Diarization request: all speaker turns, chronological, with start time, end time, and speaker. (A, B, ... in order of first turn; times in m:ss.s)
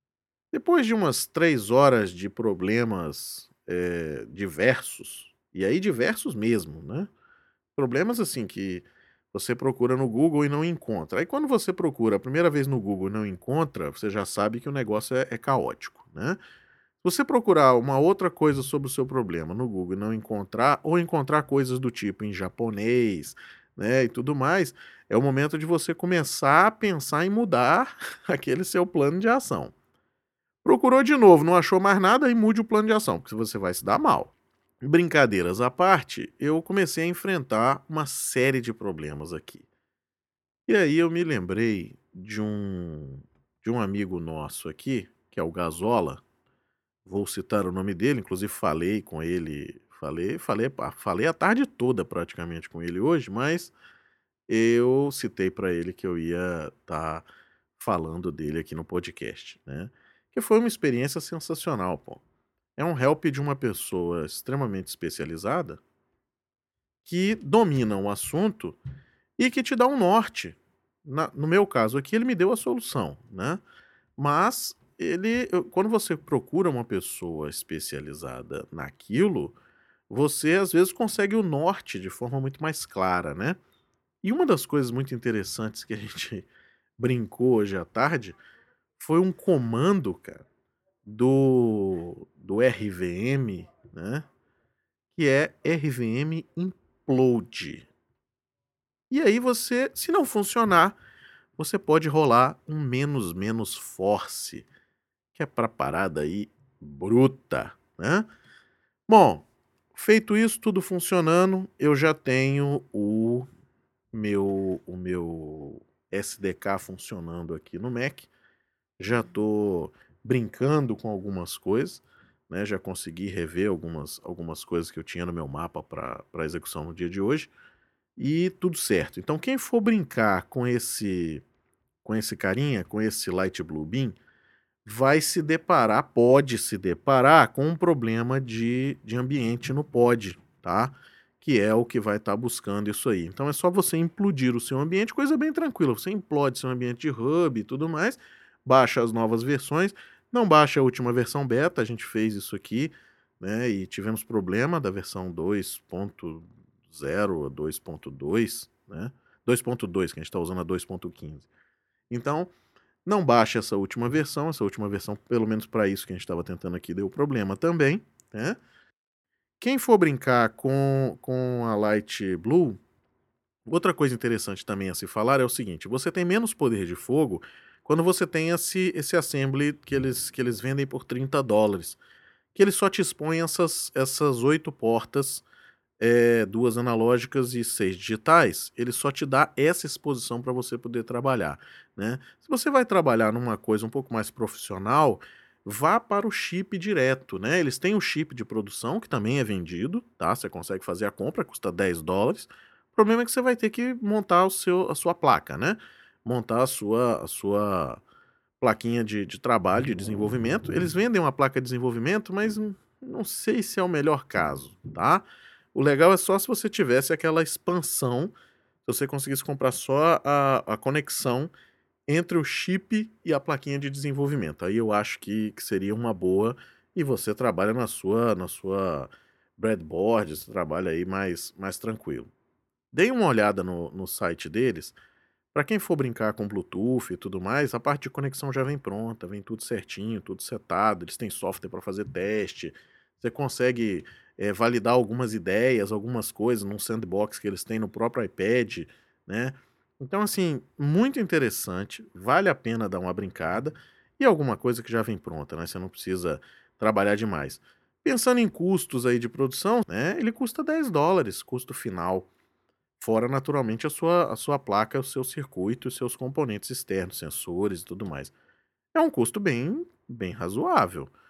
0:00.5-0:07.1 A
0:07.7-0:16.4 A
0:17.0-0:29.7 A
0:30.6-0:39.7 A
0:40.7-0:46.2 A
0:47.0-0:53.7 A
0:54.5-1:02.2 A
1:02.8-1:05.8 A
1:07.0-1:08.8 A
1:09.4-1:13.6 A
1:14.2-1:19.6 A
1:20.1-1:23.6 A
1:24.2-1:28.4 A
1:29.0-1:30.4 A
1:31.0-1:34.2 A
1:35.1-1:37.9 A
1:39.1-1:41.0 A
1:41.6-1:44.7 A
1:45.3-1:48.3 A
1:49.1-1:53.5 A
1:54.1-1:58.3 A
1:59.0-2:07.5 A
2:08.2-2:11.4 A
2:12.0-2:14.2 A
2:14.8-2:41.5 A
2:42.1-2:42.5 A
2:43.0-2:48.6 A
2:49.6-2:52.8 A
2:53.6-3:02.0 A
3:02.5-3:05.4 A
3:06.0-3:28.0 A
3:28.6-3:38.3 A
3:38.8-3:41.5 A
3:42.1-3:52.3 A
3:52.9-3:55.0 A
3:55.5-4:22.3 A
4:23.0-4:28.3 A
4:28.9-4:31.1 A